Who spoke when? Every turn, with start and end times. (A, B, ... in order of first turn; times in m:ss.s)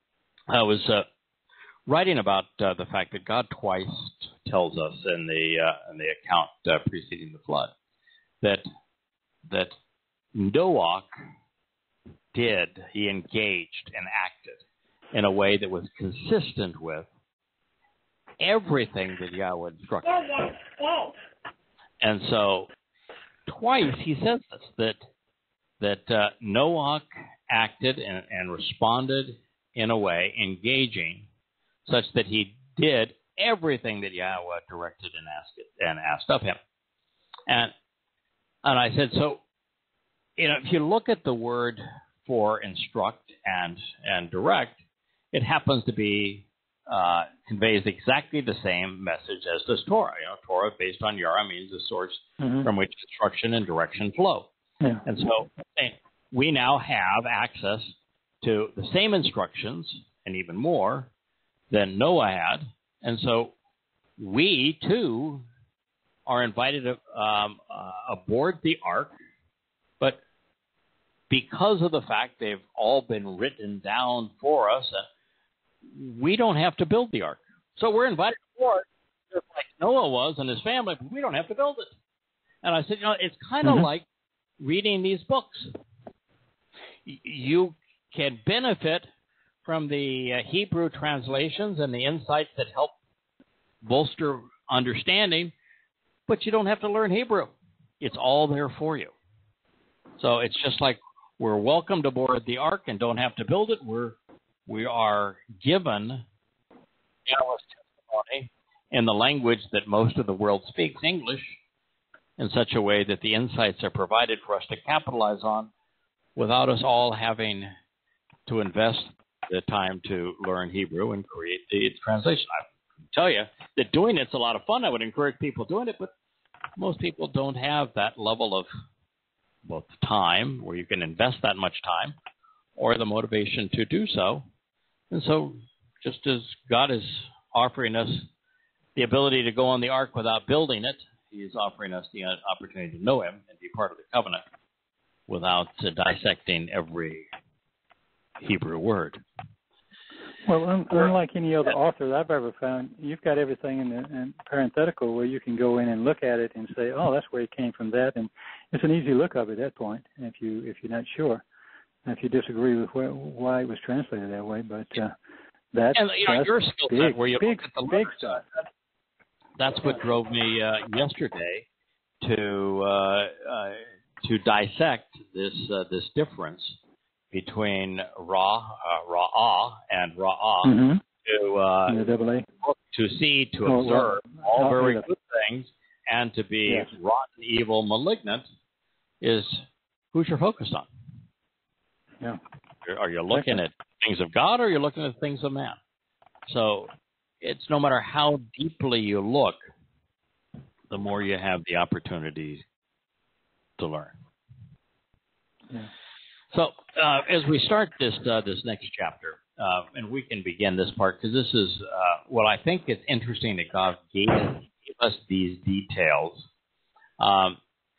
0:00.5-0:01.1 A
0:01.9-0:07.7 A
0:09.4-0:09.7 A
0:10.3-0:11.1 A
0:12.3-0:14.6 A
0:15.1-0:17.1 A
0:18.4-0:20.6 A
0:22.0-0:22.7 A
0:23.5-0:25.0 A
0:25.8-0:31.3 A
0:31.9-0:36.6 A
0:37.5-0:37.7 A
0:38.6-0:39.4 A
0:40.4-0:44.8 A
0:45.3-0:54.5 A
0:52.4-0:52.7 B
0:55.1-1:01.1 A
1:01.7-1:03.5 A
1:04.2-1:05.4 A
1:06.3-1:09.2 A
1:11.3-1:15.0 A
1:15.9-1:21.9 A
1:22.6-1:24.1 A
1:24.6-1:25.7 A
1:27.0-1:29.1 A
1:29.6-1:33.0 A
1:33.8-1:35.5 A
1:36.3-1:39.1 A
1:40.2-1:46.3 A
1:47.3-1:51.6 A
1:52.4-1:55.7 A
1:56.4-1:57.7 A
1:58.5-2:06.1 A
2:06.8-2:08.7 A
2:09.7-2:12.2 A
2:12.8-2:14.4 A
2:15.1-2:18.3 A
2:19.0-2:24.4 A
2:25.3-2:27.3 A
2:28.4-2:29.2 A
2:30.4-2:41.4 B
2:42.1-2:45.2 B
2:45.7-2:48.4 B
2:45.9-2:48.4 A
2:49.6-2:51.7 A
2:52.2-2:56.8 A
2:57.3-3:02.0 A
3:00.6-3:01.0 B
3:01.9-3:02.5 B
3:02.6-3:08.5 A
3:03.7-3:05.0 B
3:09.2-3:10.9 A
3:12.8-3:15.8 A
3:13.3-3:13.6 B
3:16.5-3:19.7 A
3:20.9-3:22.6 A
3:23.8-3:24.2 A
3:26.5-3:36.5 A
3:37.2-3:37.6 A